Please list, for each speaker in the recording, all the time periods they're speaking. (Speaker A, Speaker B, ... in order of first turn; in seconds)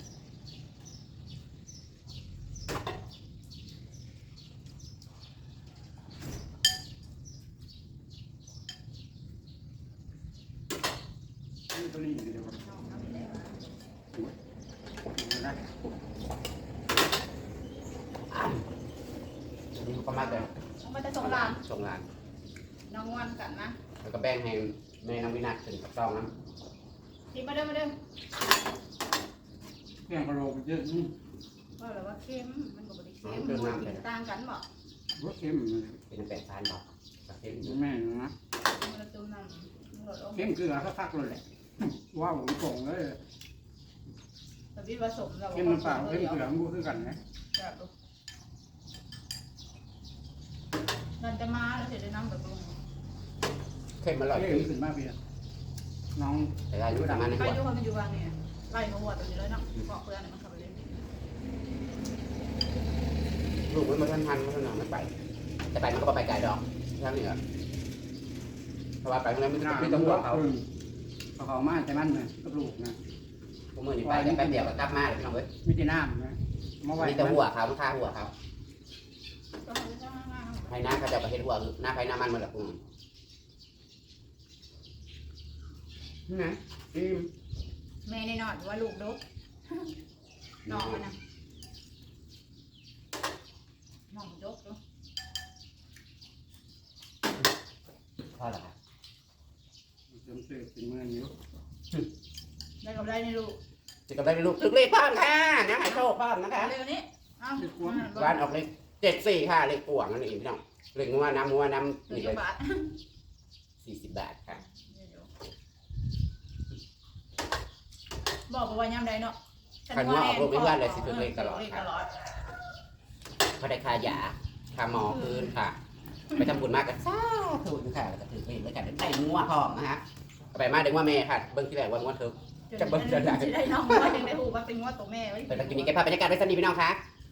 Speaker A: 11.7-12.6, 15.1-15.7, 30.1-31.1, 35.2-36.0, 37.6-38.3, 40.3-43.2, 45.5-47.2, 54.3-55.2, 56.1-57.3, 69.6-70.7, 71.4-73.0, 74.0-74.8, 75.6-77.4, 100.1-101.3, 107.6-108.1
Speaker B: 12.6-13.6, 20.1-21.6, 22.9-23.8, 27.3-27.9, 31.8-34.6, 38.7-40.5, 44.8-46.5, 47.1-47.9, 51.2-52.8, 57.1-60.9, 79.6-80.8, 88.0-89.2, 90.7-91.2, 94.1-94.8, 102.8-103.6, 106.5-108.4, 112.1-112.9, 114.7-115.3, 118.5-119.4, 119.9-122.1, 125.0-125.5, 132.7-136.0
Speaker C: 18.3-18.6, 19.7-20.5, 21.2-22.1, 24.0-26.3, 33.2-34.0, 36.1-37.8, 54.0-54.7, 56.7-57.6, 63.6-65.1, 65.7-67.4, 69.0-70.5, 73.7-75.5, 77.0-78.3, 80.7-82.8, 86.3-87.3, 90.7-91.0, 98.4-98.7, 104.1-106.8, 108.1-112.4, 113.8-114.6, 119.9-121.9, 123.6-125.8, 126.3-134.2, 135.5-137.0